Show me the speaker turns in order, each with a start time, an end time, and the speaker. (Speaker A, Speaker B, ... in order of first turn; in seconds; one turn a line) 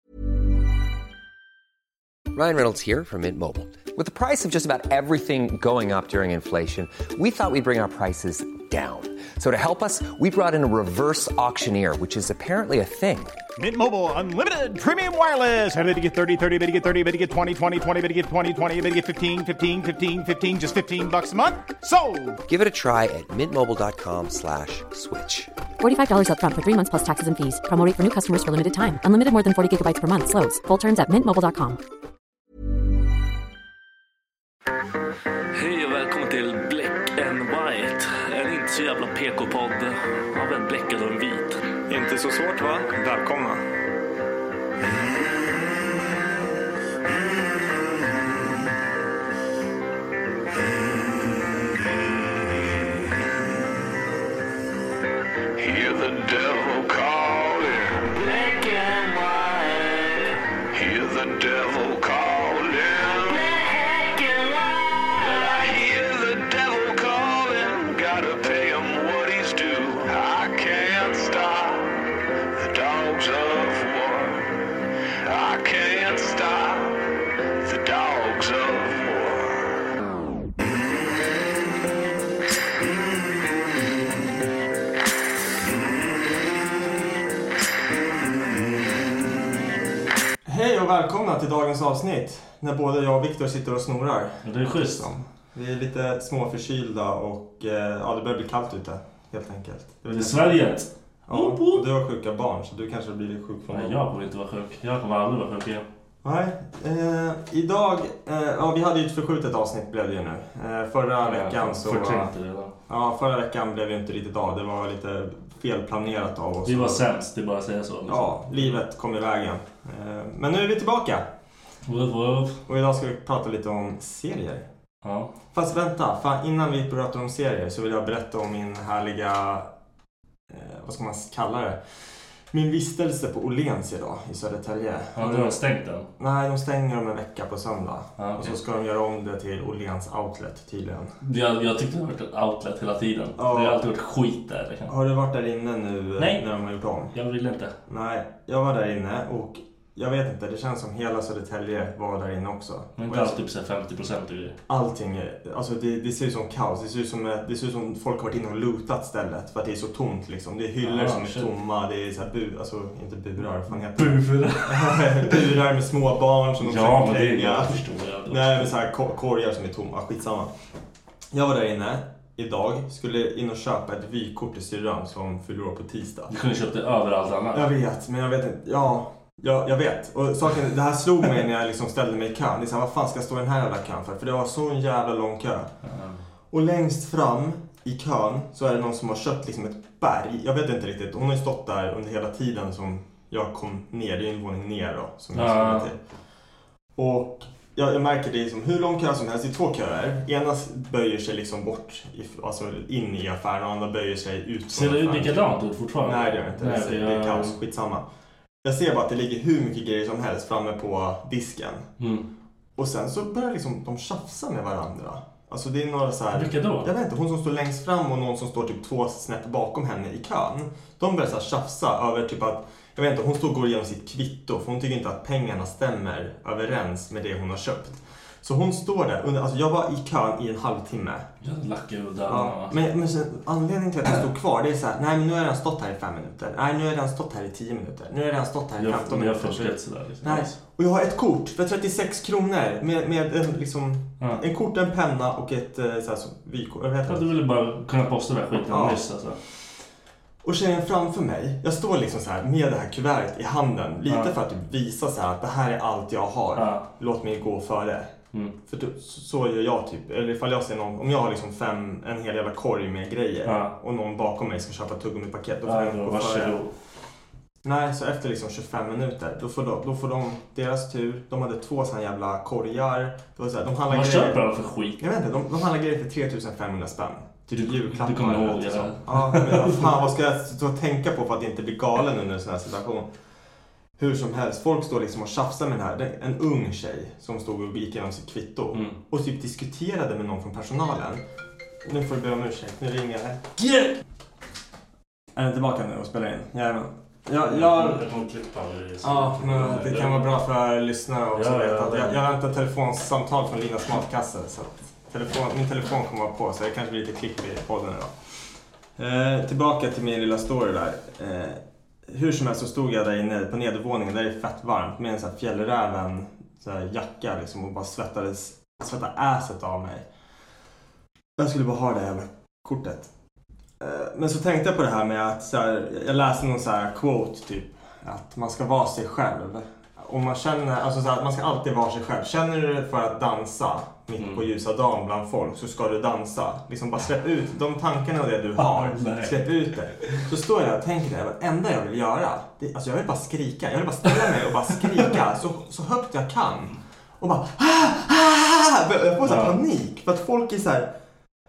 Speaker A: 2.3-13.4
Speaker B: 13.6-22.4
Speaker A: 22.4-25.5
Speaker C: 25.8-31.8
Speaker D: 35.5-41.6
Speaker E: 41.9-43.6
Speaker F: 50.6-53.1
Speaker F: 55.5-74.5
Speaker F: 75.2-79.8
Speaker E: 90.4-100.7
Speaker D: 94.4-95.1
Speaker D: 100.1-101.8
Speaker E: 101.3-104.0
Speaker D: 103.7-105.8
Speaker E: 106.2-112.3
Speaker D: 111.2-112.7
Speaker E: 112.9-117.0
Speaker D: 116.6-118.7
Speaker E: 118.1-121.3
Speaker D: 121.8-122.6
Speaker E: 122.7-124.7
Speaker D: 125.0-125.3
Speaker E: 125.5-129.7
Speaker E: 130.5-131.8
Speaker E: 132.5-135.6
Speaker D: 135.2-136.1
Speaker E: 136.2-141.2
Speaker D: 138.2-138.6
Speaker D: 141.2-144.9
Speaker E: 143.4-143.8
Speaker E: 144.9-147.1
Speaker D: 146.2-146.4
Speaker D: 147.1-147.7
Speaker E: 147.9-153.3
Speaker D: 153.0-154.6
Speaker E: 154.7-170.5
Speaker D: 160.8-161.5
Speaker D: 163.9-165.4
Speaker D: 166.6-168.8
Speaker E: 171.3-176.3
Speaker D: 176.3-177.7
Speaker E: 177.5-185.7
Speaker D: 185.8-186.2
Speaker E: 186.5-196.0
Speaker D: 195.3-195.9
Speaker E: 196.9-205.4
Speaker D: 204.7-207.6
Speaker E: 206.0-208.0
Speaker E: 208.6-211.9
Speaker D: 212.0-212.2
Speaker E: 212.8-231.2
Speaker D: 216.3-216.9
Speaker D: 231.4-232.8
Speaker E: 232.3-247.3
Speaker D: 238.8-240.6
Speaker D: 247.1-249.4
Speaker E: 248.6-249.0
Speaker E: 250.4-258.1
Speaker D: 254.1-254.3
Speaker D: 256.5-256.9
Speaker E: 258.7-266.6
Speaker D: 263.4-263.7
Speaker D: 265.6-266.7
Speaker E: 267.6-274.4
Speaker D: 273.9-275.0
Speaker E: 275.0-283.1
Speaker D: 277.5-279.9
Speaker E: 284.0-291.2
Speaker D: 288.7-289.0
Speaker E: 291.8-293.4
Speaker D: 293.6-293.9
Speaker E: 295.3-298.0
Speaker D: 297.4-300.4
Speaker E: 299.0-308.1
Speaker D: 301.3-302.3
Speaker E: 309.0-320.1
Speaker E: 321.4-323.1
Speaker E: 323.8-350.9
Speaker D: 334.2-334.4
Speaker D: 338.6-339.4
Speaker D: 349.2-349.6